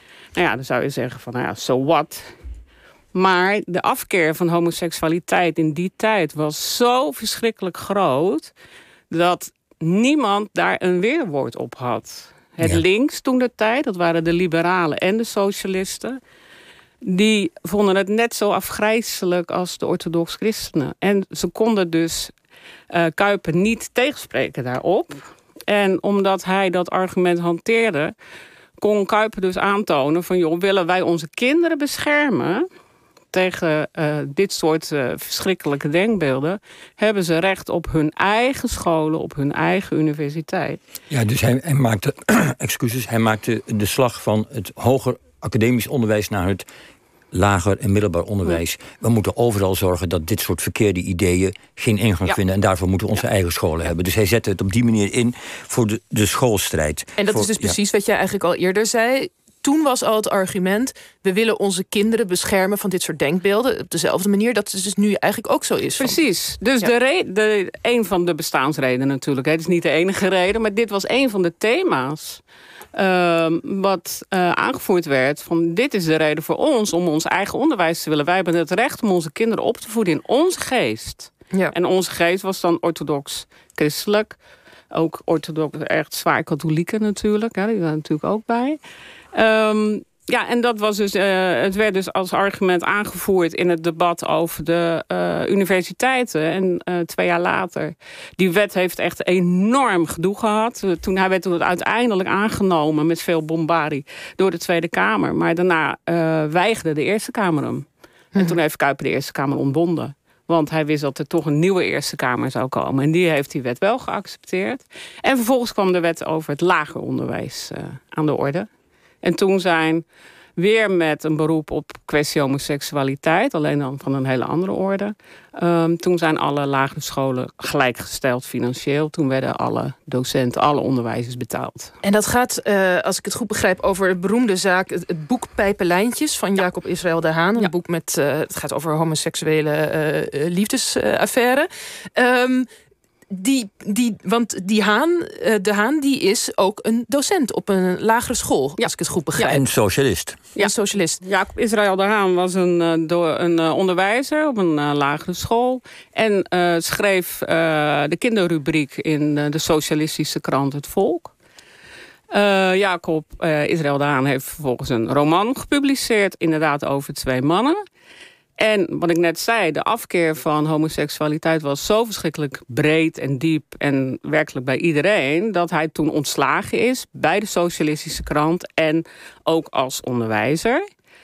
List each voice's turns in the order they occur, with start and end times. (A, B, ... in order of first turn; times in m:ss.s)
0:00.3-0:02.3 A
0:03.1-0:08.5 A
0:09.1-0:16.2 A
0:17.0-0:22.3 A
0:22.9-0:28.1 A
0:28.8-0:32.6 A
0:33.3-0:40.8 A
0:41.1-0:46.6 B
0:47.3-0:57.7 B
0:57.2-1:06.2 C
1:06.0-1:12.4 A
1:12.9-1:24.4 A
1:24.9-1:28.8 A
1:29.3-1:58.7 A
1:59.2-2:00.0 A
2:00.6-2:11.9 A
2:12.0-2:22.7 C
2:23.3-2:29.6 C
2:28.8-2:29.5 A
2:29.4-2:30.4 B
2:30.5-2:41.3 A
2:30.6-2:31.2 C
2:42.3-2:47.8 A
2:48.6-3:00.8 A